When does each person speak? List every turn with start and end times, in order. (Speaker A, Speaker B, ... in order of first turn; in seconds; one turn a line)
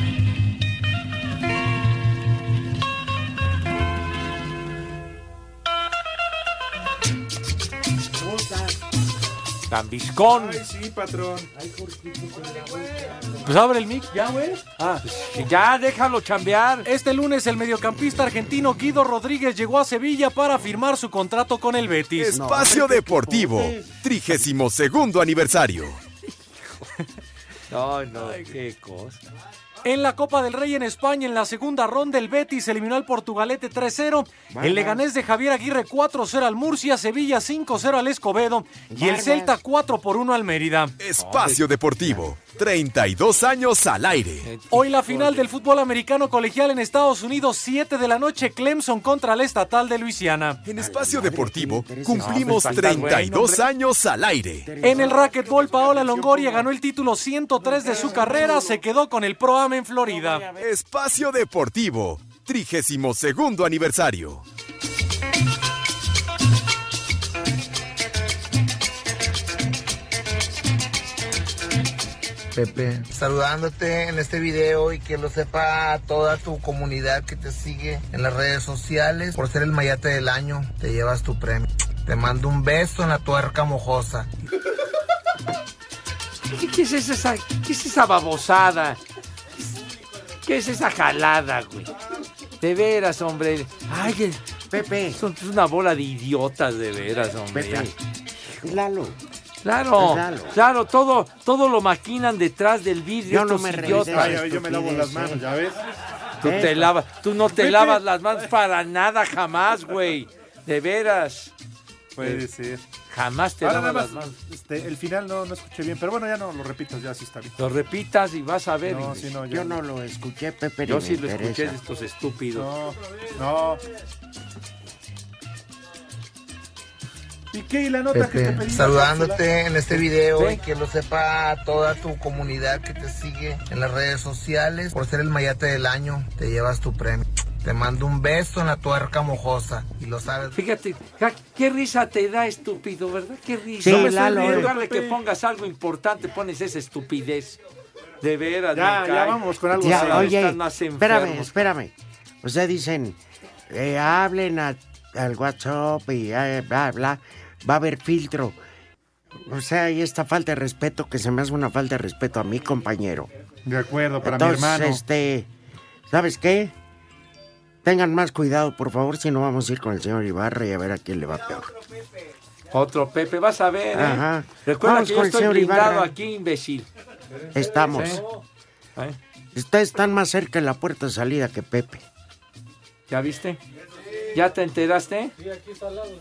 Speaker A: 8.2-8.8
Speaker B: 9.7-10.6
Speaker C: 10.3-11.5
Speaker A: 11.5-13.4
Speaker D: 13.4-14.1
Speaker D: 14.7-15.0
Speaker B: 15.0-16.9
Speaker D: 16.9-22.4
Speaker E: 22.2-26.0
Speaker A: 22.3-23.9
Speaker B: 27.7-29.2
Speaker D: 29.8-41.0
Speaker A: 34.5-35.0
Speaker A: 38.9-39.6
Speaker E: 41.0-44.5
Speaker B: 41.2-42.1
Speaker B: 44.4-45.5
Speaker D: 44.7-50.6
Speaker E: 50.6-54.8
Speaker A: 50.8-53.4
Speaker B: 52.1-53.6
Speaker A: 54.6-56.4
Speaker D: 54.8-60.5
Speaker C: 54.9-56.7
Speaker A: 57.6-58.8
Speaker A: 60.0-60.7
Speaker E: 60.6-64.4
Speaker F: 72.5-84.3
Speaker B: 86.4-89.0
Speaker B: 90.4-91.9
Speaker B: 92.6-94.4
Speaker A: 94.7-95.2
Speaker B: 95.1-97.9
Speaker A: 97.5-98.0
Speaker A: 98.6-99.2
Speaker B: 99.6-104.4
Speaker A: 100.0-100.6
Speaker A: 103.3-105.5
Speaker C: 103.8-105.8
Speaker B: 106.4-111.5
Speaker A: 106.4-106.9
Speaker C: 107.5-108.0
Speaker C: 112.2-112.8
Speaker B: 112.2-112.4
Speaker B: 113.1-114.3
Speaker C: 113.6-117.6
Speaker B: 117.6-119.3
Speaker C: 118.8-119.8
Speaker A: 119.5-121.8
Speaker B: 120.9-122.7
Speaker C: 122.5-123.8
Speaker C: 127.5-129.4
Speaker F: 128.1-140.6
Speaker B: 130.4-130.6
Speaker B: 140.5-147.6
Speaker A: 143.8-144.7
Speaker C: 143.9-145.2
Speaker B: 148.2-151.6
Speaker C: 148.7-150.3
Speaker A: 149.8-158.6
Speaker A: 159.4-163.3
Speaker C: 163.7-165.0
Speaker A: 164.2-165.5
Speaker A: 166.1-166.7
Speaker A: 167.8-171.7
Speaker B: 172.7-176.9
Speaker A: 173.9-176.1
Speaker A: 177.5-178.3
Speaker B: 177.9-178.2
Speaker A: 179.5-182.1
Speaker B: 183.1-183.6
Speaker B: 184.3-185.3